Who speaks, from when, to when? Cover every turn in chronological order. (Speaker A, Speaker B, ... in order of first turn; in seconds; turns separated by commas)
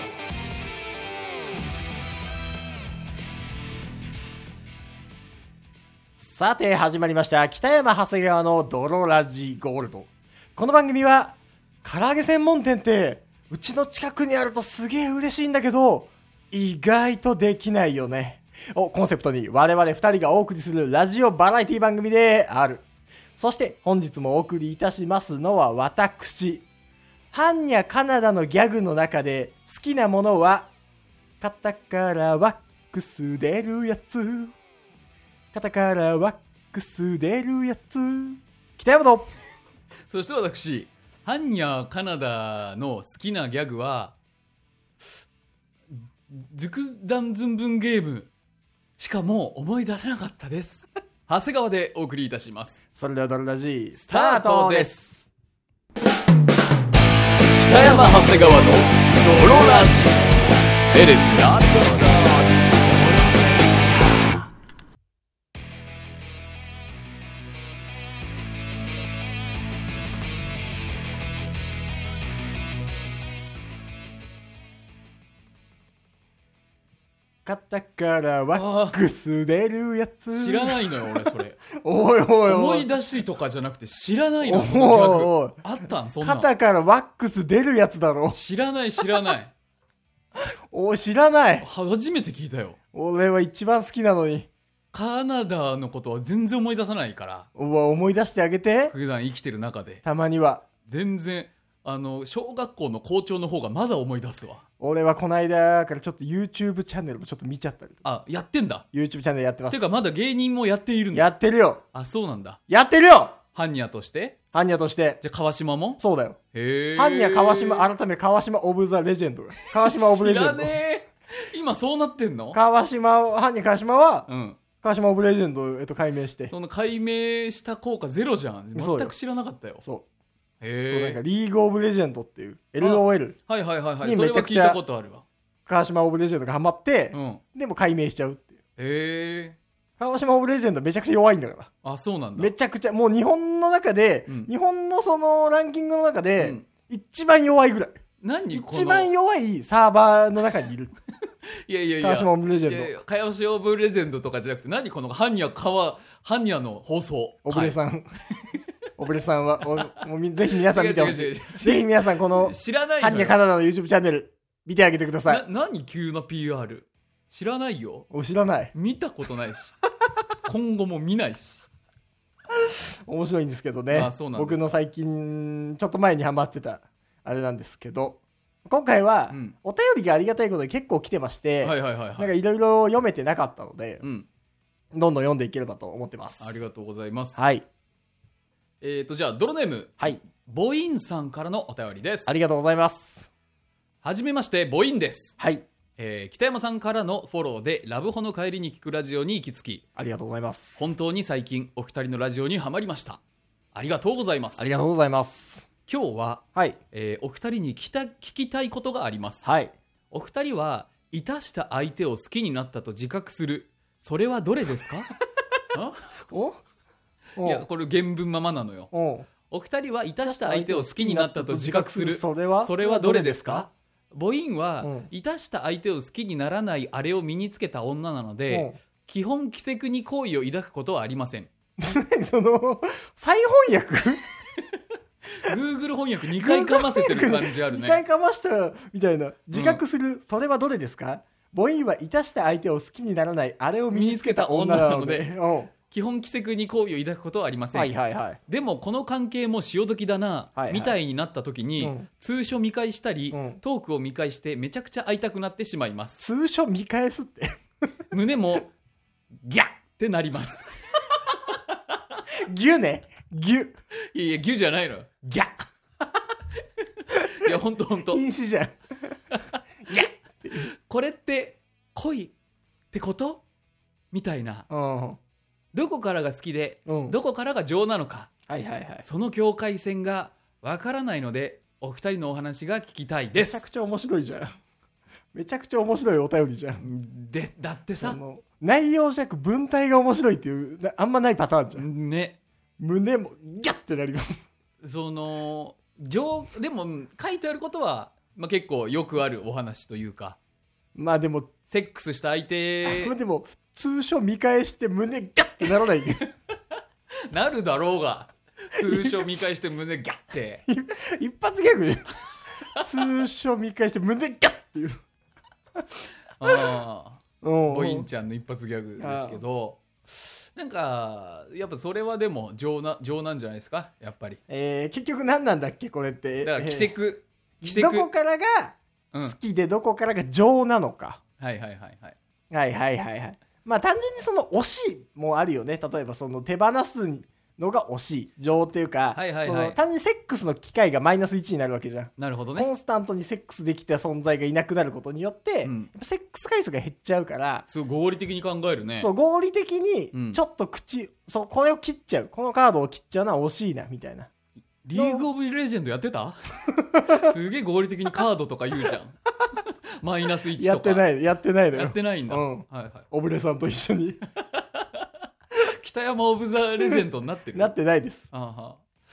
Speaker A: 6.2-22.8, Speaker A: 23.4-26.6, Speaker A: 27.3-30.7, Speaker A: 31.4-34.5, Speaker A: 35.5-39.3, Speaker B: 40.1-44.2, Speaker B: 45.9-48.3, Speaker B: 49.0-52.8, Speaker A: 53.0-55.3, Speaker B: 53.9-55.1, Speaker B: 57.6-60.3, Speaker B: 60.9-64.5, Speaker A: 77.5-82.9, Speaker B: 78.5-79.0, Speaker B: 80.3-81.6, Speaker B: 82.5-86.5, Speaker A: 84.4-85.6, Speaker A: 86.2-88.4, Speaker B: 88.3-89.5, Speaker A: 90.4-91.7, Speaker B: 91.6-92.8, Speaker A: 92.9-94.5, Speaker B: 94.9-97.5, Speaker A: 97.5-98.9, Speaker B: 98.9-100.0, Speaker A: 100.0-100.7, Speaker B: 100.8-104.6, Speaker A: 104.8-108.0, Speaker B: 108.0-108.8, Speaker A: 108.9-110.0, Speaker B: 109.7-111.3, Speaker A: 111.1-111.8, Speaker B: 111.9-112.6, Speaker A: 112.7-113.4, Speaker B: 113.5-114.4, Speaker A: 114.5-115.2, Speaker B: 115.2-116.0, Speaker A: 116.0-116.4, Speaker B: 116.5-117.9, Speaker A: 117.0-120.8, Speaker B: 119.7-122.6, Speaker A: 122.5-124.3, Speaker B: 124.3-124.6, Speaker A: 124.8-126.5, Speaker B: 126.5-129.8, Speaker A: 128.8-129.1, Speaker B: 130.6-131.2, Speaker A: 130.9-133.4, Speaker B: 132.8-135.2, Speaker A: 134.0-134.8, Speaker A: 135.7-138.5, Speaker B: 137.1-137.4, Speaker B: 138.8-139.6, Speaker A: 140.0-141.7, Speaker B: 141.8-142.5, Speaker A: 142.4-148.0, Speaker B: 146.4-146.7, Speaker B: 148.2-149.1, Speaker A: 148.5-150.9, Speaker B: 151.7-157.8, Speaker A: 152.0-152.9, Speaker A: 157.4-158.1, Speaker B: 158.4-158.7, Speaker A: 159.0-165.4, Speaker B: 159.6-160.0, Speaker B: 160.6-163.4, Speaker B: 165.3-168.1, Speaker A: 168.1-168.7, Speaker B: 168.7-169.7, Speaker B: 170.4-171.7, Speaker A: 172.6-184.0, Speaker B: 173.9-174.8, Speaker B: 179.3-179.6, Speaker B: 181.6-182.3, Speaker B: 184.0-184.3, Speaker A: 184.9-186.6, Speaker B: 186.4-187.5, Speaker A: 187.4-187.7, Speaker B: 188.8-192.4, Speaker A: 192.3-193.3, Speaker B: 194.0-195.4, Speaker A: 195.4-195.6, Speaker B: 196.0-199.8, Speaker A: 200.0-200.9, Speaker B: 200.8-203.2, Speaker B: 203.7-204.7, Speaker A: 204.6-205.7, Speaker B: 205.9-209.5, Speaker A: 209.4-209.7, Speaker B: 210.1-215.1, Speaker B: 215.7-216.1, Speaker A: 216.3-216.6, Speaker A: 217.4-217.7, Speaker B: 217.4-218.9, Speaker A: 218.9-219.3, Speaker B: 219.5-231.5, Speaker A: 220.2-223.7, Speaker A: 224.8-225.1, Speaker A: 228.5-228.8, Speaker A: 231.8-234.2, Speaker B: 235.3-238.0, Speaker A: 236.4-245.7, Speaker B: 239.5-239.8, Speaker B: 243.9-245.3, Speaker B: 245.9-247.9, Speaker A: 247.7-248.4, Speaker B: 248.5-256.2, Speaker A: 250.6-250.9, Speaker A: 251.8-252.1, Speaker A: 253.3-253.6, Speaker A: 256.2-257.6, Speaker B: 258.1-258.7, Speaker B: 259.4-262.2, Speaker A: 262.4-263.7, Speaker B: 264.1-265.6, Speaker B: 266.8-268.2, Speaker A: 267.4-269.2, Speaker B: 269.3-269.6, Speaker A: 269.9-270.7, Speaker B: 270.5-272.3, Speaker B: 272.9-273.4, Speaker B: 274.1-274.7, Speaker A: 274.7-275.2, Speaker B: 275.7-278.3, Speaker A: 276.9-277.2, Speaker A: 278.5-279.1, Speaker B: 279.0-283.7, Speaker A: 283.4-284.5, Speaker A: 285.3-286.8, Speaker B: 286.8-288.2, Speaker A: 288.0-291.8, Speaker B: 291.8-292.4, Speaker A: 292.8-294.4, Speaker B: 294.8-300.4, Speaker A: 300.9-301.5, Speaker B: 301.7-303.1, Speaker A: 302.8-306.2, Speaker B: 307.3-310.6, Speaker A: 308.8-309.1, Speaker A: 310.7-312.1, Speaker B: 312.7-313.1, Speaker A: 312.8-315.0, Speaker B: 316.4-324.4, Speaker A: 316.4-316.7, Speaker A: 317.4-318.1, Speaker A: 319.0-319.4, Speaker A: 324.5-326.9, Speaker B: 326.4-328.1, Speaker A: 327.6-331.2, Speaker B: 329.1-329.4, Speaker B: 331.4-332.2, Speaker A: 332.5-347.6, Speaker B: 339.1-339.8, Speaker B: 342.2-342.7, Speaker B: 345.6-345.9, Speaker B: 347.7-349.1, Speaker A: 349.0-354.3, Speaker B: 350.1-350.4, Speaker B: 354.8-359.1, Speaker A: 354.9-355.2, Speaker A: 356.8-357.3, Speaker B: 360.0-361.1, Speaker A: 360.6-364.2, Speaker B: 361.7-363.1, Speaker B: 364.5-367.7, Speaker A: 367.5-368.3, Speaker B: 368.3-368.9